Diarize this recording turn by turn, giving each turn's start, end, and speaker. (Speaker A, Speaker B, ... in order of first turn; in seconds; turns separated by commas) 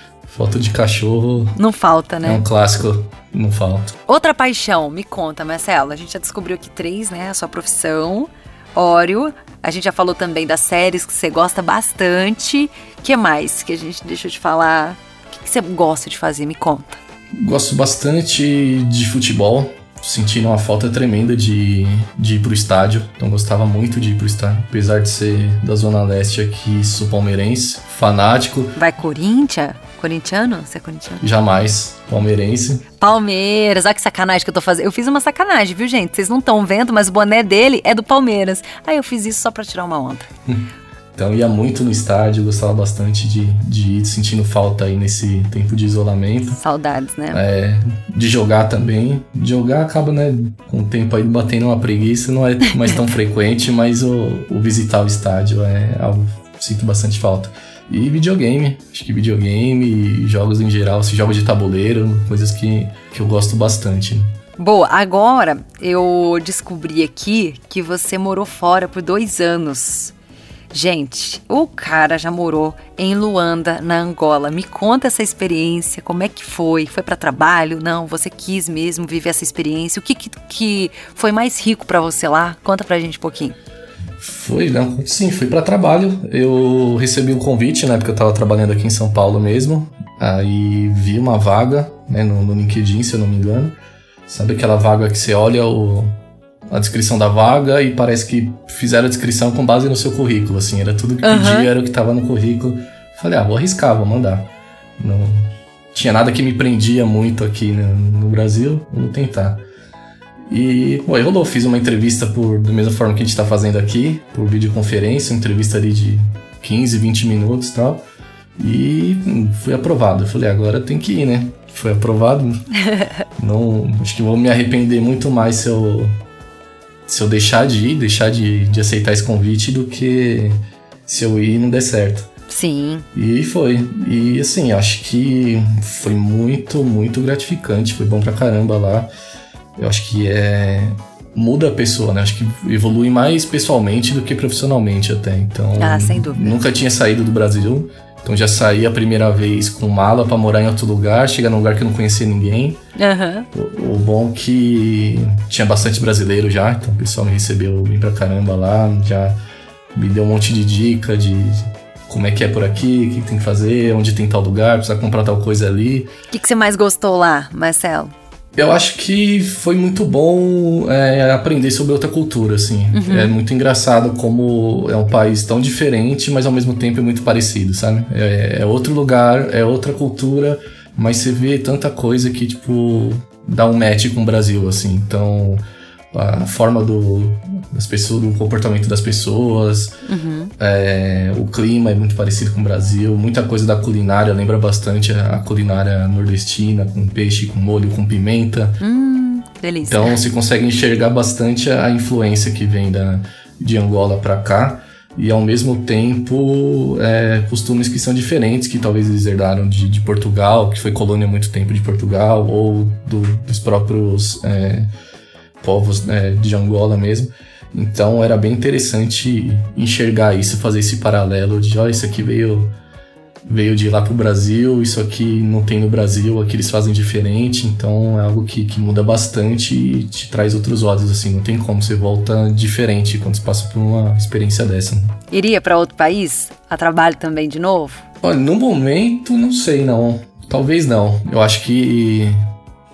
Speaker A: 0.3-1.6, Speaker B: 1.6-2.5, Speaker A: 2.2-4.0, Speaker B: 4.1-17.0, Speaker A: 17.3-28.8, Speaker B: 28.8-31.3, Speaker A: 31.2-32.8, Speaker B: 33.0-40.3, Speaker A: 40.5-46.6, Speaker B: 46.6-47.4, Speaker A: 47.3-64.3, Speaker B: 64.6-70.1, Speaker B: 70.7-83.6, Speaker A: 84.2-109.7, Speaker B: 101.2-101.7, Speaker A: 110.5-118.0, Speaker A: 118.6-122.7, Speaker B: 122.8-123.1, Speaker A: 123.4-126.2, Speaker A: 127.1-132.3, Speaker B: 132.5-133.1, Speaker A: 133.2-139.1, Speaker A: 139.8-152.8, Speaker B: 145.8-146.6, Speaker B: 153.0-153.5, Speaker A: 153.5-159.4, Speaker A: 159.9-166.1, Speaker B: 166.3-168.1, Speaker A: 168.6-190.0, Speaker B: 172.9-173.3, Speaker B: 190.1-190.5, Speaker A: 190.6-198.8, Speaker B: 198.8-200.2, Speaker A: 199.8-214.9, Speaker A: 215.6-222.8, Speaker A: 223.5-235.2, Speaker B: 235.3-238.0, Speaker A: 238.2-242.4